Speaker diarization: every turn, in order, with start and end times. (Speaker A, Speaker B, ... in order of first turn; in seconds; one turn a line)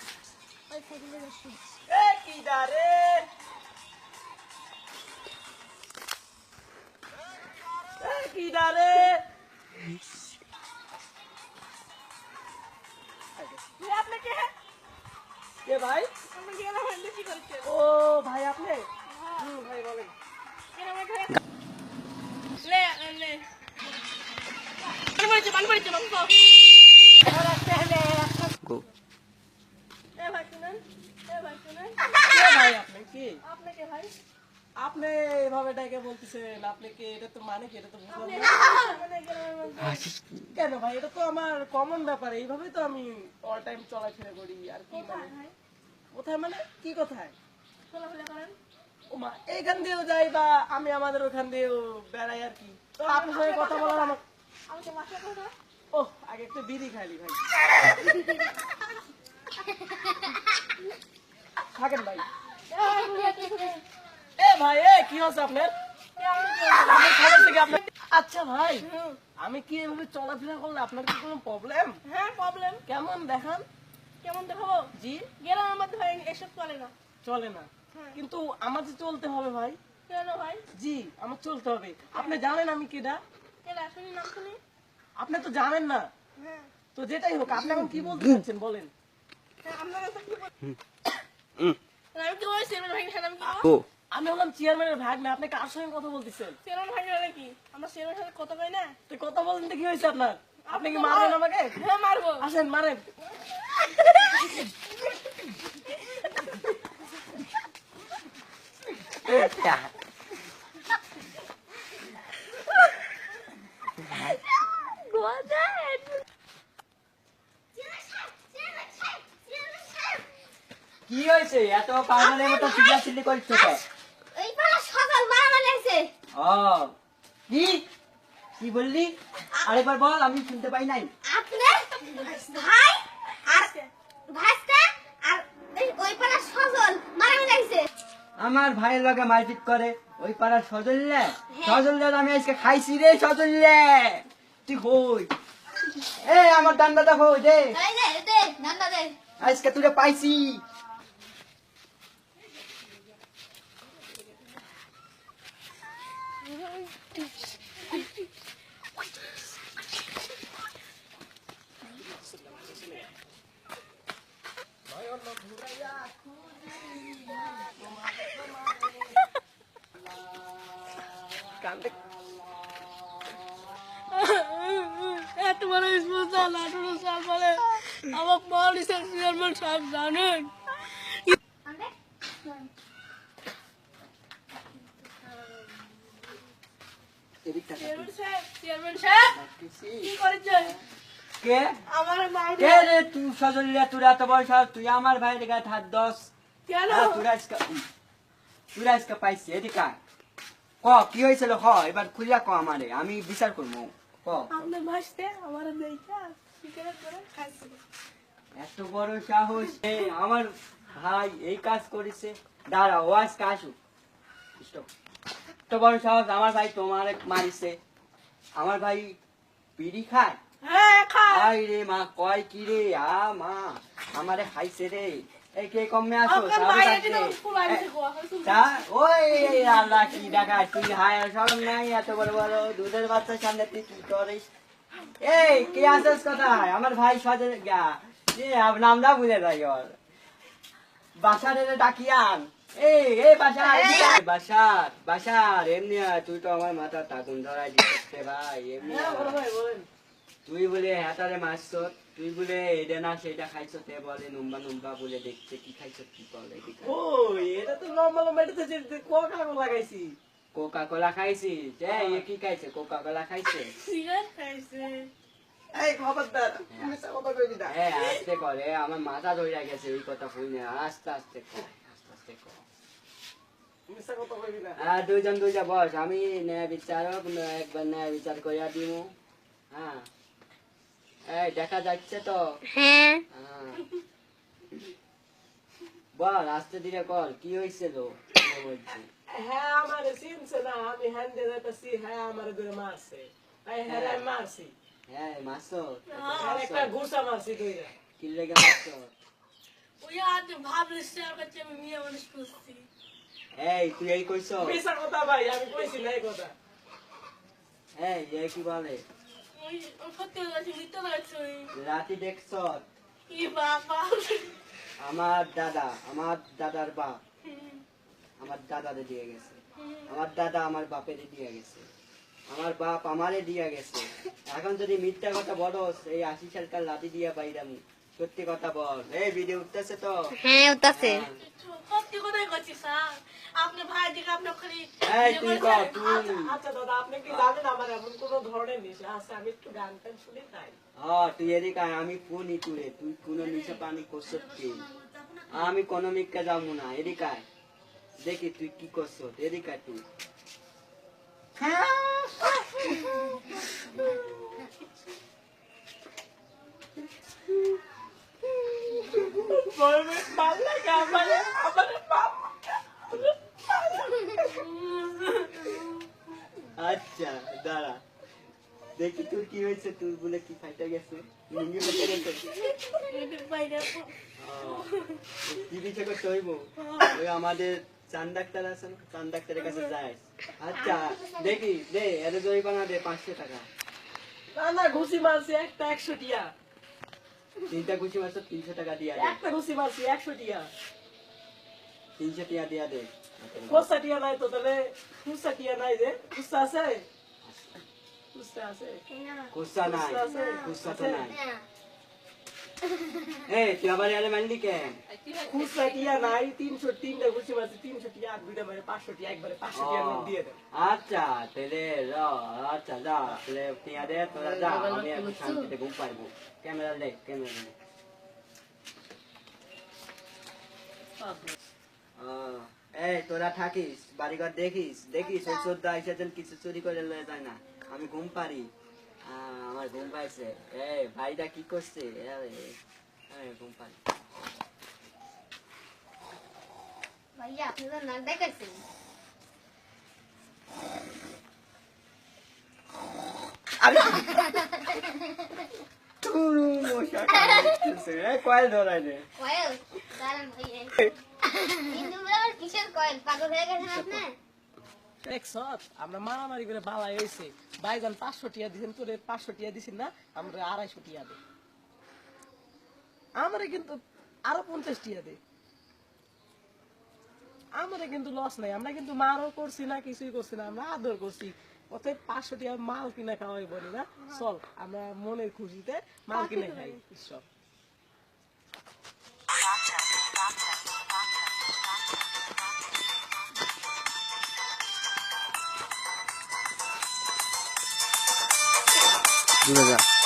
Speaker A: 0.7-1.6
Speaker B: 1.9-3.3
Speaker B: 8.0-9.2
Speaker A: 13.8-14.5
Speaker B: 15.6-16.1
Speaker A: 16.3-17.7
Speaker B: 17.6-18.9
Speaker A: 19.1-19.5
Speaker B: 19.4-20.1
Speaker A: 20.7-21.4
Speaker A: 22.6-23.5
Speaker A: 25.0-26.6
Speaker B: 27.2-28.5
Speaker A: 30.2-32.1
Speaker B: 32.3-33.4
Speaker A: 33.4-34.1
Speaker B: 34.8-38.7
Speaker A: 38.1-40.0
Speaker C: 39.8-40.5
Speaker B: 40.5-45.3
Speaker A: 44.9-45.5
Speaker B: 46.1-47.3
Speaker A: 47.9-48.6
Speaker B: 49.1-54.2
Speaker A: 53.1-55.5
Speaker B: 55.9-57.4
Speaker B: 61.6-62.3
Speaker A: 62.7-63.8
Speaker B: 64.4-65.7
Speaker A: 66.2-67.4
Speaker B: 66.8-72.0
Speaker A: 68.8-69.2
Speaker A: 72.0-72.8
Speaker B: 72.9-73.7
Speaker A: 74.2-76.9
Speaker B: 75.0-75.3
Speaker B: 77.2-79.8
Speaker A: 77.9-78.2
Speaker A: 80.1-80.7
Speaker B: 80.7-83.2
Speaker A: 83.6-84.6
Speaker B: 85.2-86.1
Speaker A: 86.4-86.7
Speaker B: 87.0-88.9
Speaker A: 89.6-90.5
Speaker A: 92.1-93.7
Speaker B: 94.1-96.6
Speaker A: 96.6-99.0
Speaker B: 99.1-101.9
Speaker A: 100.7-102.5
Speaker B: 102.4-103.1
Speaker C: 109.2-109.9
Speaker A: 114.1-116.2
Speaker D: 117.8-120.2
Speaker C: 121.1-123.8
Speaker D: 122.1-123.8
Speaker D: 124.3-126.1
Speaker C: 126.3-126.9
Speaker C: 127.5-127.9
Speaker C: 128.6-131.1
Speaker D: 131.2-133.8
Speaker A: 133.6-133.9
Speaker D: 134.3-137.9
Speaker C: 138.4-145.3
Speaker D: 141.5-141.8
Speaker C: 146.2-147.8
Speaker D: 147.7-149.2
Speaker C: 149.4-150.6
Speaker A: 157.0-157.5
Speaker B: 161.9-163.1
Speaker B: 164.9-169.2
Speaker B: 171.6-171.9
Speaker A: 174.1-181.3
Speaker D: 181.6-182.7
Speaker C: 187.4-188.1
Speaker A: 187.8-189.4
Speaker C: 189.2-190.1
Speaker A: 190.0-190.8
Speaker C: 191.4-191.8
Speaker A: 191.9-192.9
Speaker C: 192.6-196.3
Speaker A: 196.7-197.2
Speaker C: 196.9-197.9
Speaker C: 198.7-200.0
Speaker C: 200.8-204.6
Speaker A: 204.5-207.8
Speaker C: 208.6-213.8
Speaker C: 214.6-214.9
Speaker C: 215.7-217.8
Speaker C: 218.6-219.2
Speaker C: 219.8-220.4
Speaker A: 220.6-221.5
Speaker C: 221.3-227.9
Speaker A: 226.2-228.7
Speaker C: 228.4-234.5
Speaker C: 235.2-240.0
Speaker C: 241.2-249.4
Speaker D: 243.8-244.2
Speaker B: 248.8-249.9
Speaker C: 250.5-257.0
Speaker B: 256.8-260.2
Speaker C: 260.5-263.7
Speaker B: 261.9-262.2
Speaker A: 263.7-265.1
Speaker B: 265.7-267.8
Speaker C: 267.7-272.6
Speaker A: 268.0-268.2
Speaker B: 273.9-274.8
Speaker C: 274.8-279.1
Speaker C: 279.7-280.1
Speaker C: 281.3-282.6
Speaker D: 282.7-283.2
Speaker C: 283.3-283.9
Speaker C: 286.1-289.1
Speaker B: 289.3-294.7
Speaker C: 293.9-294.3
Speaker C: 295.1-296.9
Speaker A: 296.1-296.6
Speaker B: 296.3-297.9
Speaker C: 298.2-299.1
Speaker A: 300.0-302.9
Speaker C: 303.5-304.8
Speaker B: 304.6-306.5
Speaker C: 307.9-309.0
Speaker A: 309.6-311.7
Speaker C: 311.7-312.9
Speaker A: 313.3-314.6
Speaker C: 315.0-317.2
Speaker A: 317.5-317.8
Speaker C: 318.4-319.6
Speaker A: 319.8-320.1
Speaker C: 320.1-321.8
Speaker C: 322.5-330.3
Speaker D: 330.4-331.2
Speaker C: 330.9-331.4
Speaker A: 331.4-336.1
Speaker C: 335.0-336.5
Speaker B: 335.9-340.8
Speaker C: 341.0-344.9
Speaker C: 345.5-347.4
Speaker C: 348.2-350.0
Speaker B: 351.6-352.3
Speaker B: 358.9-364.7
Speaker A: 364.3-365.9
Speaker C: 366.7-368.0
Speaker C: 368.9-372.6
Speaker A: 371.9-375.2
Speaker C: 374.4-374.9
Speaker C: 375.4-383.7
Speaker A: 376.8-377.2
Speaker A: 379.6-379.9
Speaker D: 381.0-381.5
Speaker B: 384.5-386.5
Speaker C: 387.7-389.4
Speaker B: 389.1-390.7
Speaker C: 392.2-393.9
Speaker B: 393.7-397.1
Speaker C: 397.4-397.8
Speaker B: 398.3-399.0
Speaker A: 399.1-399.5
Speaker C: 399.5-401.4
Speaker B: 399.8-401.3
Speaker D: 400.3-400.7
Speaker D: 401.3-401.6
Speaker D: 402.9-403.4
Speaker C: 403.4-405.0
Speaker A: 405.1-406.1
Speaker B: 405.4-410.6
Speaker C: 409.7-417.7
Speaker D: 414.5-415.7
Speaker B: 421.2-421.5
Speaker C: 422.2-428.7
Speaker D: 425.3-425.7
Speaker C: 429.2-432.8
Speaker C: 433.3-433.9
Speaker D: 437.3-438.8
Speaker C: 443.8-444.3
Speaker D: 444.1-445.5
Speaker C: 446.2-449.3
Speaker D: 447.3-447.9
Speaker D: 449.4-454.4
Speaker C: 453.9-454.2
Speaker B: 455.2-461.4
Speaker B: 463.4-465.4
Speaker B: 467.8-477.4
Speaker A: 476.3-477.0
Speaker C: 489.6-490.0